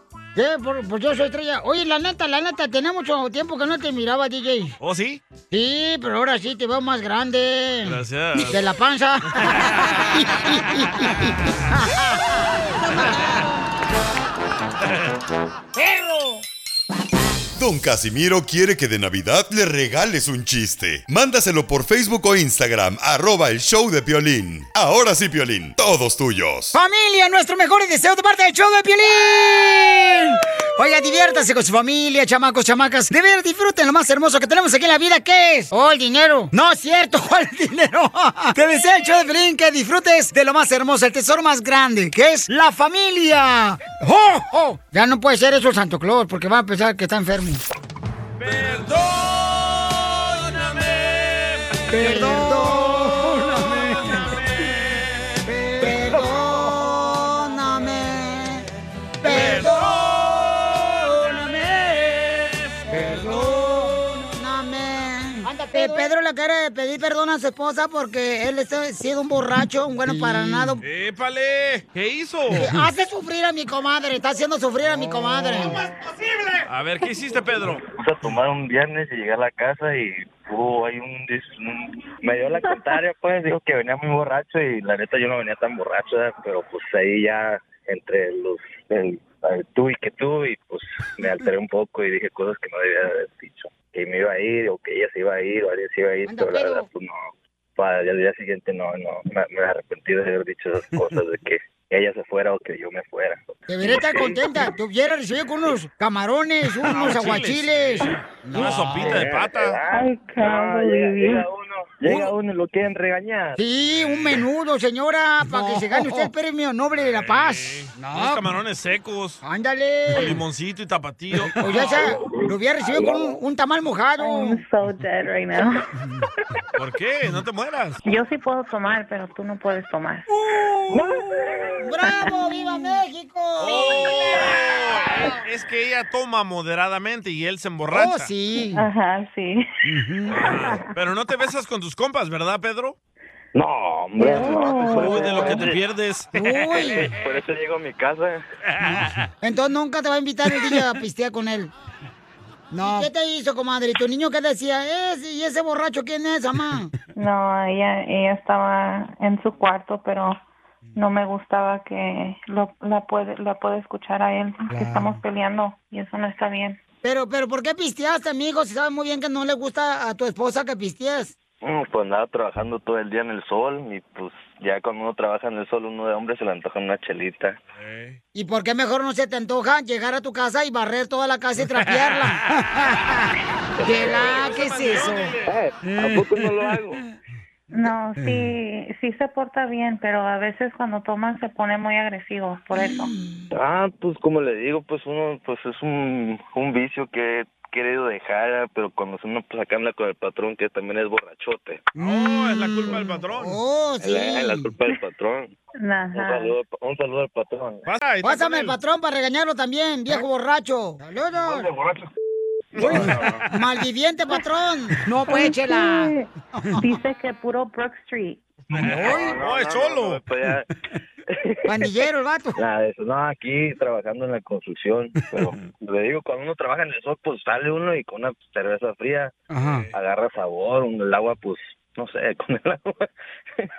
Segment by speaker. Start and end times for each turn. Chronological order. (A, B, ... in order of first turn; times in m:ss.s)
0:00.4-0:04.8 A
0:04.8-0:05.2 B
0:05.5-0:12.3 A
0:07.8-0:08.6 B
0:09.4-0:09.7 B
0:15.8-0:16.4 A
0:17.6-0:26.8 C
0:26.7-0:47.6 A
0:48.4-0:56.7 B
0:51.9-0:54.2 A
0:55.4-0:58.7 A
0:59.2-1:00.0 A
0:59.2-1:02.7 B
1:02.9-1:10.8 A
1:10.8-1:12.8 B
1:12.5-1:15.8 A
1:16.7-1:17.8 B
1:17.7-1:44.7 D
1:36.2-1:36.8 A
1:43.7-1:49.1 A
1:46.8-1:49.8 B
1:48.8-1:53.6 D
1:49.9-1:51.4 E
1:53.6-1:58.4 A
1:53.8-1:54.4 B
1:57.0-1:59.4 B
1:59.4-2:00.4 A
2:00.1-2:01.9 B
2:01.5-2:04.6 A
2:01.8-2:03.4 D
2:04.2-2:05.8 E
2:06.8-2:08.0 B
2:08.0-2:10.3 E
2:10.5-2:14.3 A
2:10.9-2:11.8 D
2:12.0-2:12.4 E
2:13.6-2:18.3 B
2:17.9-2:18.9 A
2:18.7-2:19.7 E
2:19.8-2:20.5 A
2:20.3-2:23.0 B
2:23.5-2:25.8 D
2:24.2-2:25.4 E
2:24.9-2:26.3 B
2:26.3-2:27.1 A
2:26.7-2:28.4 D
2:28.8-2:29.2 B
2:29.4-2:31.7 A
2:32.7-2:36.9 A
2:37.1-2:40.4 E
2:40.9-2:46.8 E
2:44.7-2:45.2 A
2:47.0-2:51.3 A
2:51.6-2:57.6 D
2:57.8-2:58.2 B
2:58.3-3:03.2 A
3:01.7-3:02.4 B
3:03.8-3:04.4 D
3:03.8-3:05.3 A
3:04.0-3:05.5 B
3:05.4-3:07.0 D
3:07.7-3:13.1 E
3:13.5-3:21.8 D
3:22.0-3:23.6 B
3:22.0-3:24.7 A
3:24.0-3:25.5 D
3:25.8-3:26.5 E
3:26.1-3:27.8 D
3:27.8-3:28.8 B
3:28.2-3:31.7 A
3:31.3-3:32.0 D
3:32.8-3:33.5 B
3:32.8-3:33.2 D
3:32.8-3:36.8 A
3:35.3-3:38.4 E
3:38.7-3:40.2 B
3:38.7-3:40.7 D
3:41.3-3:41.7 D
3:41.6-3:42.6 A
3:42.6-3:49.3 D
3:49.5-3:49.8 A
3:49.9-3:53.1 D